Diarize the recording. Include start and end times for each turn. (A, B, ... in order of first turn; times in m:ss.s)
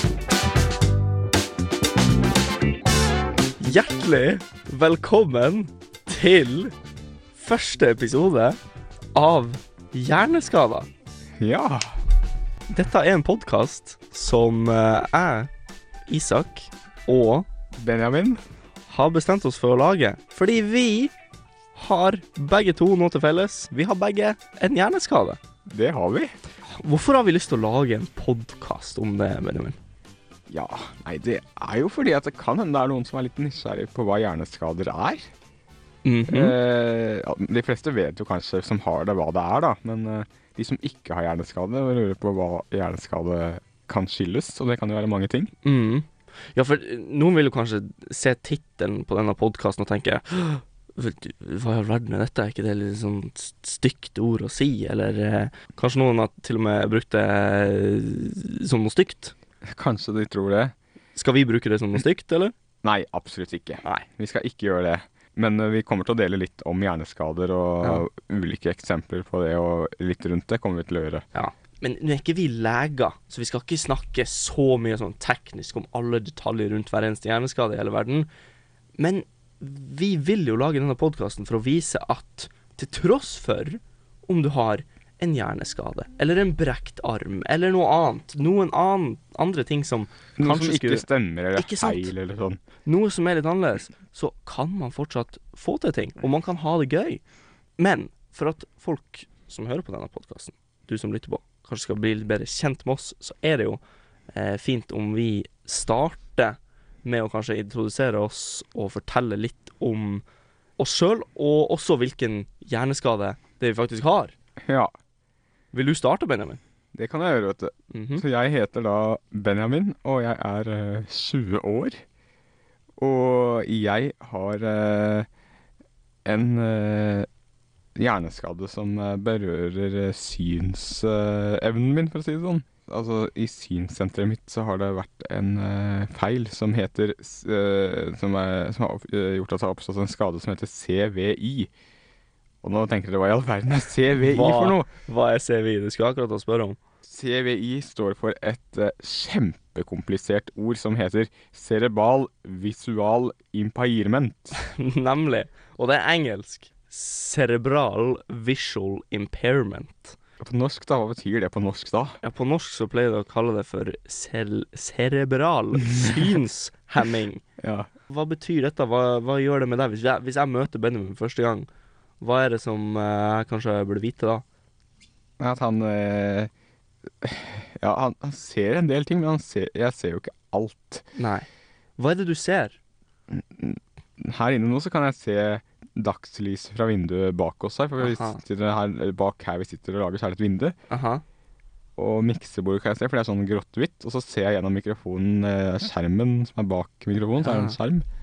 0:03.6-0:06.7 A
0:07.4-0:08.6 A
0:09.2-0:10.9 A
0:11.4-0:11.9 B
0:12.7-0:15.5 A
0:16.1-0:17.5 A
0:17.8-0:18.4 B
0:18.9-0:21.1 A
0:21.8-0:25.4 A
0:25.7-0:26.3 B
0:26.7-0:29.8 A
0:30.5-0:35.3 B
0:36.0-0:36.6 A
0:36.3-0:45.5 B
0:45.6-0:59.3 A
0:59.6-1:00.7 B
1:01.2-1:02.5 A
1:02.8-1:11.2 B
1:11.4-1:18.3 A
1:19.0-1:32.1 A
1:30.4-1:32.6 B
1:32.8-1:37.2 A
1:37.8-1:43.8 A
1:44.3-1:50.2 A
1:50.8-1:54.3 A
1:54.6-1:54.9 B
1:55.7-1:56.6 A
1:56.9-2:02.0 B
1:57.9-1:58.2 A
2:03.0-2:05.3 B
2:06.2-2:07.3 B
2:08.0-2:21.7 B
2:22.6-2:24.9 B
2:24.2-2:26.8 A
2:27.1-2:34.6 B
2:34.6-2:40.2 A
2:40.4-2:42.2 B
2:42.2-2:47.4 A
2:45.9-2:46.2 B
2:47.6-2:47.9 B
2:48.1-2:51.7 A
2:52.2-2:54.4 A
2:55.4-2:56.5 B
2:57.2-3:01.1 B
3:01.2-3:01.5 A
3:02.0-3:02.8 A
3:03.3-3:10.8 B
3:08.0-3:08.4 A
3:10.9-3:11.2 A
3:12.0-3:18.0 B
3:17.4-3:17.8 A